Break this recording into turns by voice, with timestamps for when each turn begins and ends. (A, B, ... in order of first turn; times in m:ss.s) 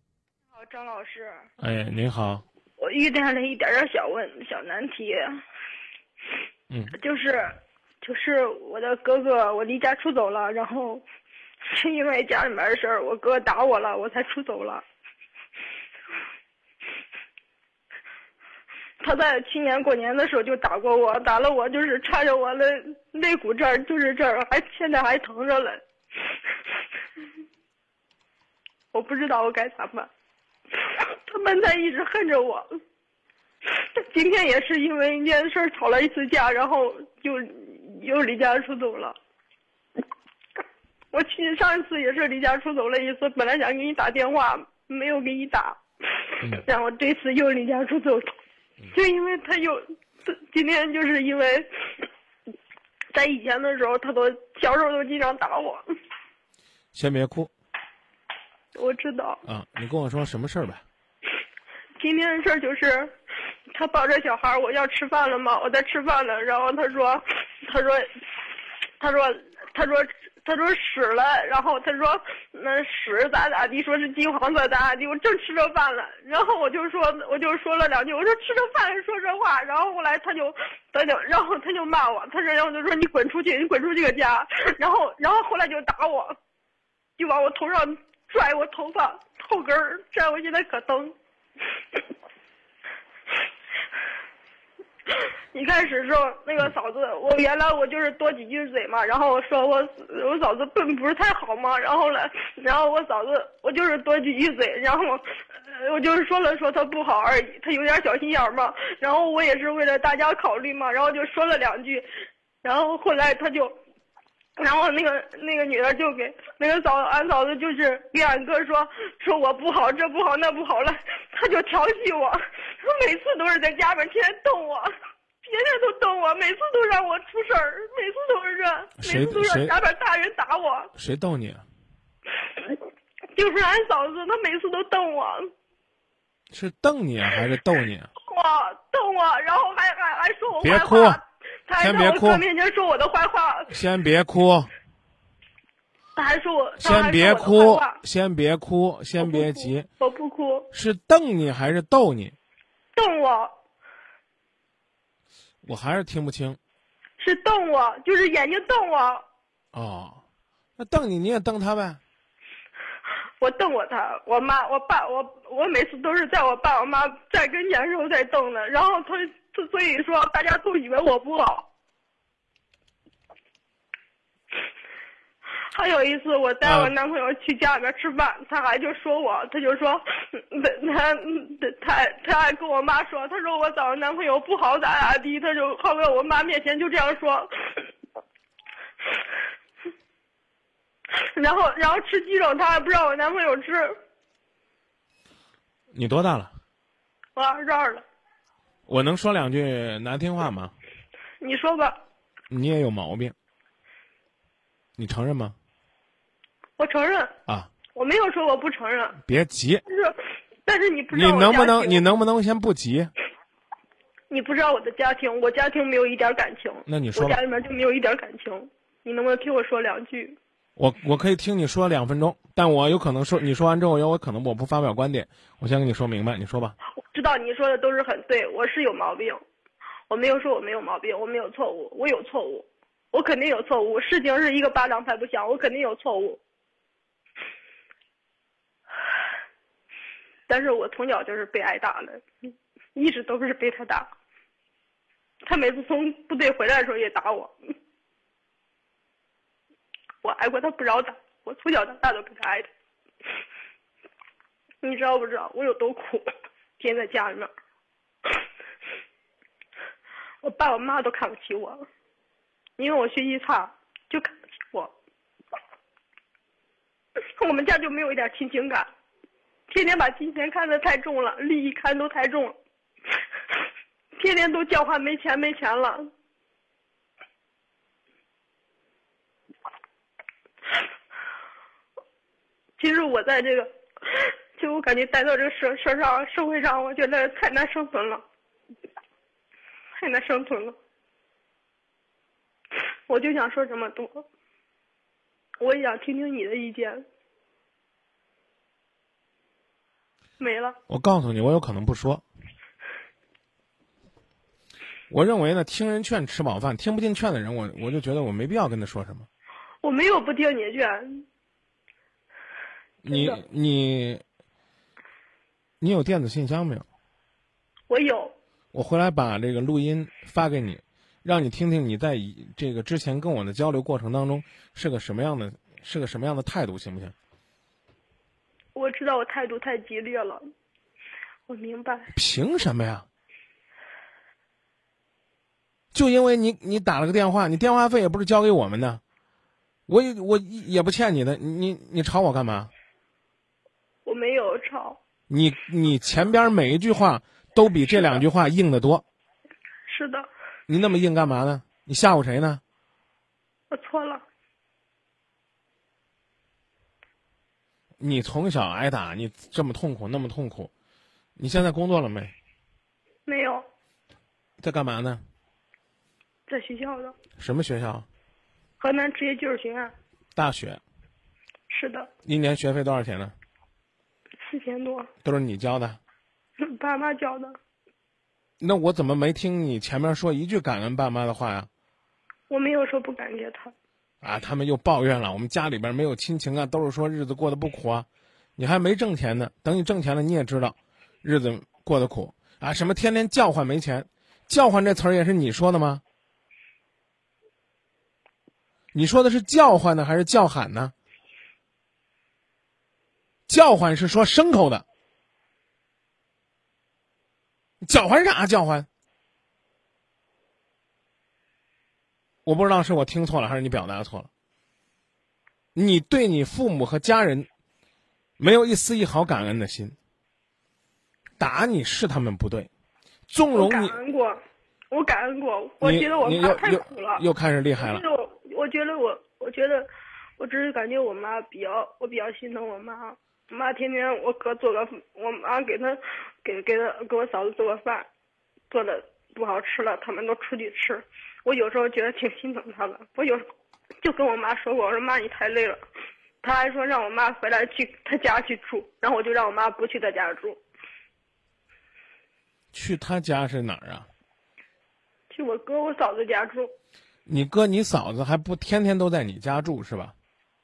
0:00.5-0:01.4 A
0:01.6-0:02.4 B
0:02.8-0:05.4 A
0:06.7-0:07.0 B
0:06.9-0:11.0 A
0:11.6-0:14.8 A
0:19.0-0:25.8 A
0:28.9-0:30.1 A
0:30.8-0:32.6 A
0:33.7-0:39.2 A
0:41.1-0:48.3 A
0:48.9-0:52.0 A
0:53.1-0:55.8 A
0:56.9-0:57.5 B
0:58.7-0:59.4 A
0:59.4-1:00.8 B
1:02.0-1:03.1 A
1:03.7-1:26.4 A
1:27.2-1:31.1 A
1:35.1-1:52.1 A
1:52.6-1:53.8 A
1:54.6-2:04.9 A
2:05.4-2:10.9 A
2:09.0-2:09.7 B
2:11.0-2:11.6 B
2:13.3-2:15.5 A
2:16.5-2:18.1 B
2:18.2-2:23.7 A
2:20.6-2:21.2 B
2:21.8-2:22.4 B
2:23.7-2:24.7 B
2:26.1-2:28.0 A
2:26.8-2:29.9 B
2:29.2-2:30.7 A
2:30.7-2:32.3 B
2:32.9-2:33.5 A
2:35.6-2:36.6 B
2:37.2-2:39.2 A
2:39.7-2:40.2 B
2:40.8-2:42.0 B
2:43.4-2:51.7 A
2:55.6-3:07.9 A
2:56.6-2:56.9 B
3:11.1-3:14.0 A
3:15.9-3:16.5 B
3:17.4-3:18.0 A
3:18.9-3:20.7 B
3:21.4-3:22.0 A
3:22.5-3:23.3 B
3:25.0-3:25.6 B
3:26.8-3:27.3 A
3:27.9-3:29.2 A
3:29.2-3:29.8 B
3:29.8-3:32.0 A
3:31.1-3:33.1 B
3:34.3-3:40.4 A
3:36.9-3:37.4 B
3:40.8-3:46.8 B
3:47.1-3:49.4 A
3:50.1-3:56.4 A
4:00.5-4:02.2 A
4:02.9-4:04.1 A
4:05.4-4:07.5 A
4:10.2-4:12.7 A
4:14.8-4:16.2 A
4:16.8-4:17.5 A
4:20.4-4:21.8 A
4:22.8-4:24.9 A
4:27.4-4:28.9 A
4:29.7-4:32.6 A
4:34.2-4:36.1 A
4:42.8-4:48.2 A
4:50.0-4:50.8 A
4:53.1-4:54.2 A
4:55.6-4:57.0 A
5:00.4-5:00.8 A
5:00.9-5:02.2 B
5:05.1-5:09.3 B
5:09.8-5:11.2 A
5:13.0-5:14.2 B
5:13.1-5:13.4 A
5:15.8-5:16.8 B
5:17.9-5:18.3 A
5:18.7-5:27.1 B
5:28.7-5:30.4 A
5:31.5-5:32.1 A
5:32.1-5:33.0 B
5:35.9-5:39.0 B
5:39.9-5:42.7 B
5:44.0-5:45.0 A
5:45.3-5:49.0 B
5:49.9-5:50.3 A
5:50.7-5:52.6 B
5:53.7-5:54.2 A
5:58.0-6:00.7 B
6:01.4-6:02.3 B
6:03.2-6:03.6 A
6:04.6-6:05.2 B
6:06.5-6:07.1 A
6:07.4-6:08.0 B
6:08.8-6:09.9 A
6:10.3-6:10.8 B
6:11.7-6:12.1 A
6:12.2-6:13.3 B
6:14.4-6:15.1 A
6:15.2-6:16.0 B
6:16.6-6:17.6 A
6:18.6-6:21.7 B
6:22.5-6:23.7 A
6:24.2-6:28.0 B
6:28.6-6:36.0 B
6:38.9-6:40.9 B
6:43.5-6:44.8 B
6:47.8-6:48.9 B
6:52.4-6:54.3 B
6:55.7-6:57.5 B
6:58.4-7:00.0 B
7:01.4-7:02.7 B
7:03.3-7:04.0 B
7:03.5-7:07.2 A
7:05.8-7:08.0 B
7:07.8-7:18.1 A
7:18.7-7:23.5 A
7:24.0-7:25.8 A
7:26.4-7:30.6 A
7:32.7-7:34.1 B
7:35.3-7:36.7 A
7:37.3-7:40.1 B